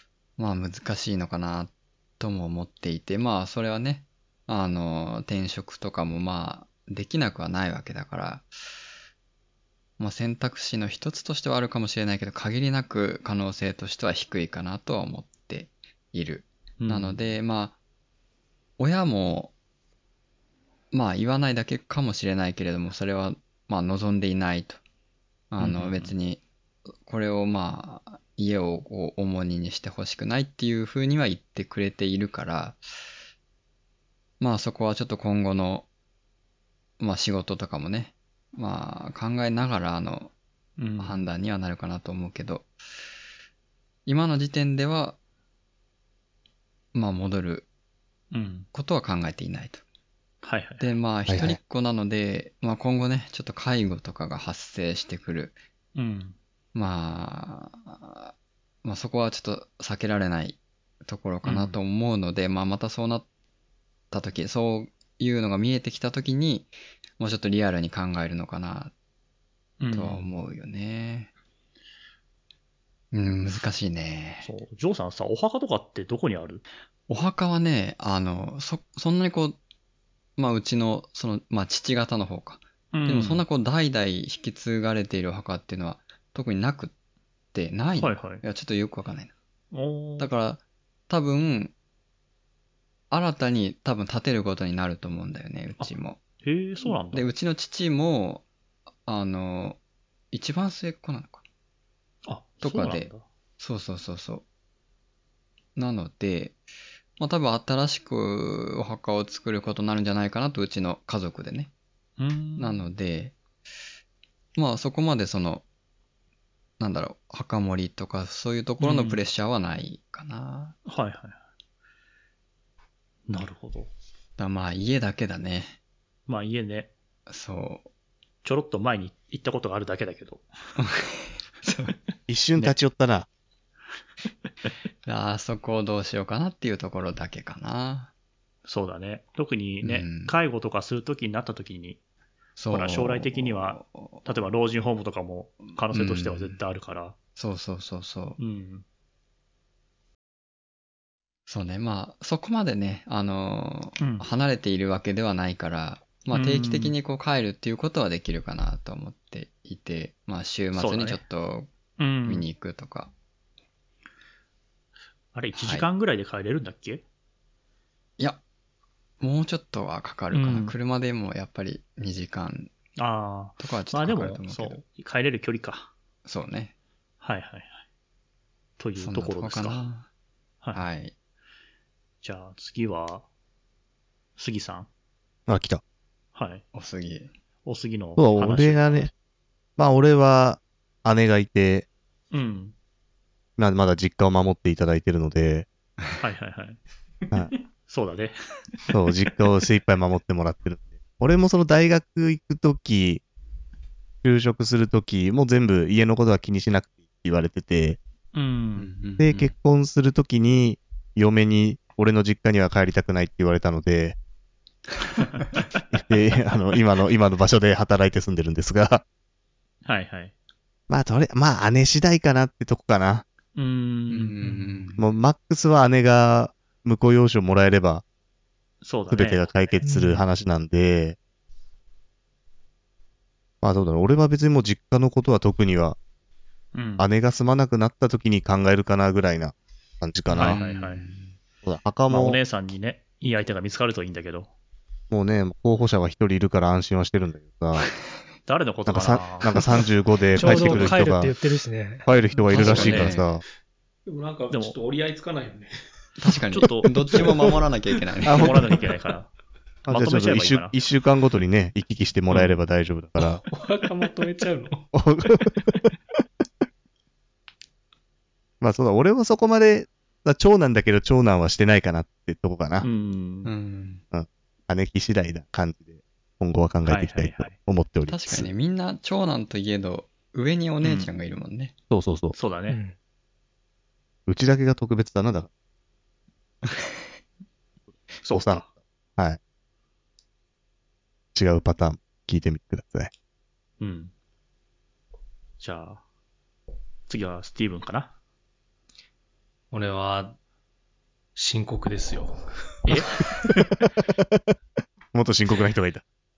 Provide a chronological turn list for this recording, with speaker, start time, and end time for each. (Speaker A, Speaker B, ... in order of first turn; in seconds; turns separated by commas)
Speaker A: 0.4-8.5, Speaker A: 10.0-17.8, Speaker B: 16.8-17.2, Speaker A: 18.8-19.5, Speaker A: 20.9-24.8, Speaker A: 25.5-26.4, Speaker B: 25.6-26.1, Speaker A: 27.0-32.8, Speaker A: 34.4-35.9, Speaker A: 37.0-40.3, Speaker B: 40.8-41.2, Speaker A: 41.0-42.7, Speaker A: 44.0-45.2, Speaker A: 46.9-47.7, Speaker B: 48.3-48.7, Speaker A: 48.7-49.8, Speaker B: 50.4-50.9, Speaker A: 50.8-55.6, Speaker C: 51.3-51.6, Speaker B: 55.9-56.4, Speaker A: 56.7-58.3, Speaker A: 58.8-63.2, Speaker B: 61.4-61.8, Speaker A: 64.1-68.9, Speaker B: 69.8-70.3, Speaker A: 69.9-71.3, Speaker A: 73.1-74.5, Speaker B: 74.4-76.6, Speaker A: 77.1-79.6, Speaker A: 80.4-86.9, Speaker B: 82.9-83.4, Speaker A: 87.5-89.3, Speaker B: 88.0-88.4, Speaker B: 89.7-90.3, Speaker A: 90.2-91.7, Speaker A: 93.1-96.2, Speaker B: 95.8-97.3, Speaker A: 96.8-98.5, Speaker A: 99.0-99.8, Speaker A: 100.3-101.4, Speaker B: 102.2-103.2, Speaker A: 102.6-104.4, Speaker A: 105.8-106.6, Speaker A: 107.2-111.7, Speaker B: 112.2-112.8, Speaker A: 112.6-113.3, Speaker A: 114.5-115.7, Speaker A: 116.8-120.8, Speaker B: 118.8-119.2, Speaker B: 120.9-121.4, Speaker B: 123.3-123.9, Speaker A: 124.4-125.8, Speaker B: 126.3-126.9, Speaker A: 127.3-127.9, Speaker B: 128.4-130.5, Speaker A: 130.8-131.9, Speaker C: 132.3-133.3, Speaker A: 135.1-138.1, Speaker B: 138.7-142.0, Speaker A: 139.8-140.3, Speaker A: 142.6-144.3, Speaker B: 142.7-147.1, Speaker A: 145.9-146.6, Speaker A: 147.3-148.4, Speaker B: 148.4-148.8, Speaker A: 151.5-161.7, Speaker B: 154.0-154.2, Speaker B: 156.3-156.9, Speaker B: 160.7-161.2, Speaker B: 162.0-162.5, Speaker A: 162.2-163.1, Speaker B: 165.3-167.0, Speaker A: 165.5-165.9, Speaker A: 169.2-172.7, Speaker B: 170.3-170.7, Speaker B: 173.0-175.9, Speaker A: 173.6-174.8, Speaker A: 176.2-176.7, Speaker B: 177.2-177.8, Speaker B: 178.8-179.8, Speaker A: 179.0-180.1, Speaker A: 180.7-181.1, Speaker B: 182.2-183.2, Speaker B: 184.4-184.9, Speaker C: 185.5-185.8, Speaker B: 186.3-186.6, Speaker A: 186.7-187.3, Speaker B: 187.6-189.0, Speaker C: 188.2-189.1, Speaker C: 189.8-191.9, Speaker B: 192.3-192.7, Speaker C: 193.6-195.7, Speaker B: 196.2-196.8, Speaker B: 197.9-198.3, Speaker C: 198.9-203.2, Speaker C: 204.2-208.0, Speaker B: 208.3-208.9, Speaker A: 208.8-209.5, Speaker C: 209.2-214.2, Speaker C: 215.9-219.0, Speaker B: 219.8-220.3, Speaker C: 220.9-223.2, Speaker B: 223.5-224.3, Speaker A: 224.1-225.1, Speaker C: 225.0-228.0, Speaker B: 228.8-229.8, Speaker C: 229.1-231.2, Speaker D: 229.8-230.2, Speaker C: 233.6-236.0, Speaker B: 236.7-237.1, Speaker C: 237.0-240.6, Speaker A: 240.3-241.3, Speaker B: 240.3-241.0, Speaker C: 241.6-242.4, Speaker B: 242.1-244.5, Speaker C: 245.1-247.9, Speaker B: 248.4-249.5, Speaker C: 248.8-251.3, Speaker D: 250.4-252.1, Speaker B: 250.5-251.0, Speaker C: 252.0-253.4, Speaker A: 252.5-253.3, Speaker B: 252.5-253.2, Speaker E: 254.1-255.7, Speaker B: 254.5-254.8, Speaker A: 256.2-258.6, Speaker B: 256.5-257.5, Speaker C: 258.2-258.7, Speaker B: 258.3-259.3, Speaker C: 259.9-263.4, Speaker B: 259.9-260.8, Speaker B: 262.3-262.5, Speaker E: 263.2-264.9, Speaker C: 264.9-265.9, Speaker C: 268.6-272.9, Speaker B: 272.8-273.5, Speaker A: 273.4-274.0, Speaker C: 274.1-278.5, Speaker B: 276.8-277.6, Speaker A: 278.1-281.7, Speaker B: 280.8-281.1, Speaker C: 281.9-282.3, Speaker B: 282.3-282.8, Speaker D: 282.7-282.9, Speaker C: 284.3-285.5, Speaker B: 288.2-288.7, Speaker C: 288.3-289.4, Speaker C: 291.3-293.1, Speaker B: 293.8-294.1, Speaker B: 295.6-296.0, Speaker B: 297.1-298.1, Speaker E: 299.7-300.4, Speaker E: 301.4-303.2, Speaker C: 305.1-306.0